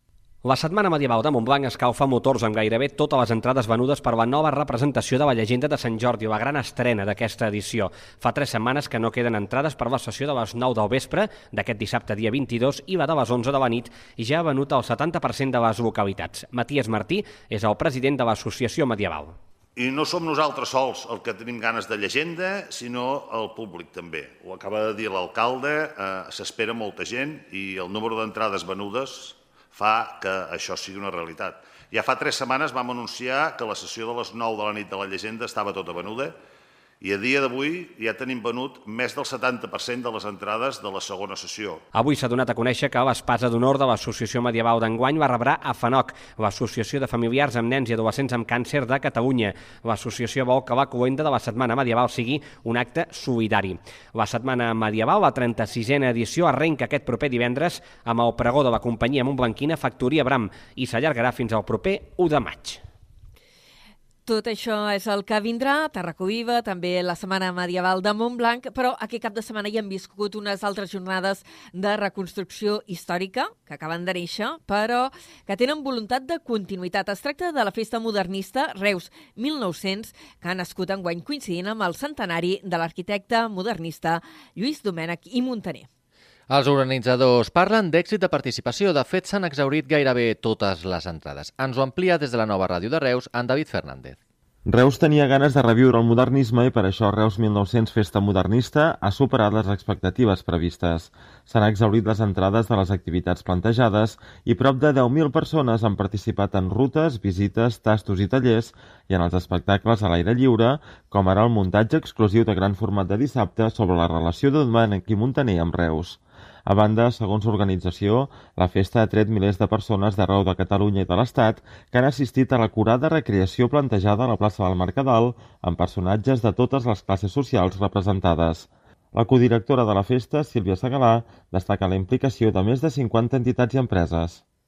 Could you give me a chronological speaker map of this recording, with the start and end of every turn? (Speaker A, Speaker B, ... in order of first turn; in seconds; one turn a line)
Speaker A: 0.4-19.4
Speaker B: 19.8-36.4
Speaker B: 37.0-41.9
Speaker A: 41.9-62.8
Speaker C: 64.2-85.9
Speaker D: 86.5-94.2
Speaker E: 94.7-134.4